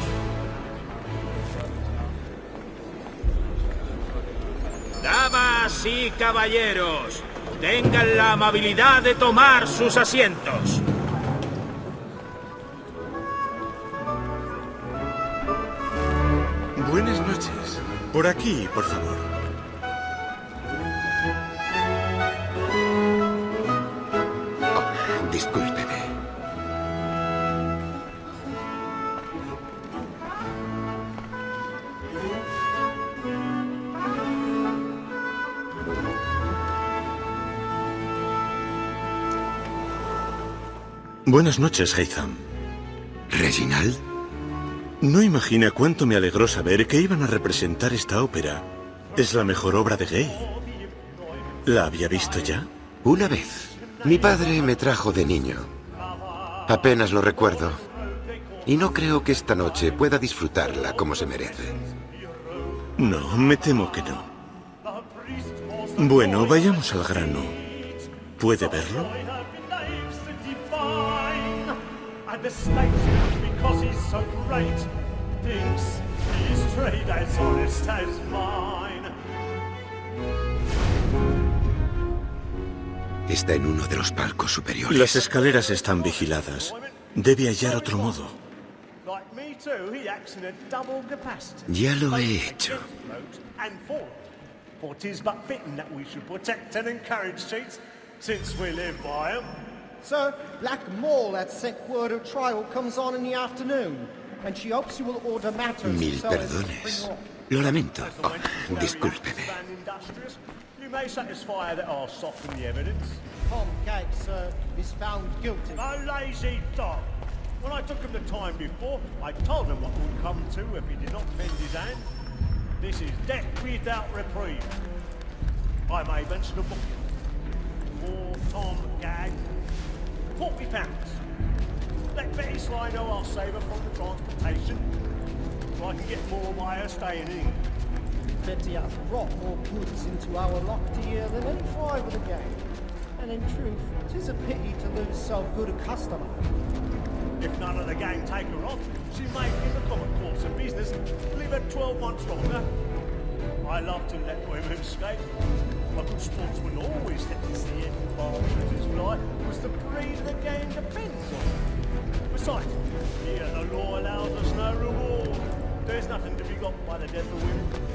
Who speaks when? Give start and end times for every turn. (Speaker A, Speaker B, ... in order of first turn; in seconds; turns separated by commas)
Speaker A: 5.0-10.8, Speaker B: 16.8-19.3, Speaker C: 24.7-26.1, Speaker B: 41.2-42.4, Speaker C: 43.3-44.0, Speaker B: 45.0-50.5, Speaker D: 50.1-52.5, Speaker B: 51.6-52.7, Speaker C: 53.0-55.7, Speaker D: 53.7-54.7, Speaker D: 56.0-60.0, Speaker C: 56.7-57.8, Speaker C: 58.6-61.8, Speaker D: 60.6-64.0, Speaker B: 63.0-64.3, Speaker D: 64.8-79.1, Speaker B: 66.0-67.6, Speaker B: 68.4-69.1, Speaker C: 83.3-85.2, Speaker B: 84.9-88.3, Speaker D: 85.2-87.0, Speaker D: 87.6-88.2, Speaker D: 89.0-99.5, Speaker C: 91.7-92.8, Speaker E: 100.0-107.2, Speaker C: 105.8-109.6, Speaker D: 107.9-113.2, Speaker E: 113.4-115.9, Speaker D: 115.8-122.1, Speaker D: 122.8-124.7, Speaker D: 125.9-127.0, Speaker D: 127.9-129.4, Speaker D: 130.3-131.2, Speaker D: 132.1-134.9, Speaker D: 135.8-137.6, Speaker E: 138.4-146.4, Speaker D: 147.4-152.7, Speaker D: 153.6-155.3, Speaker D: 155.9-161.6, Speaker D: 162.3-167.7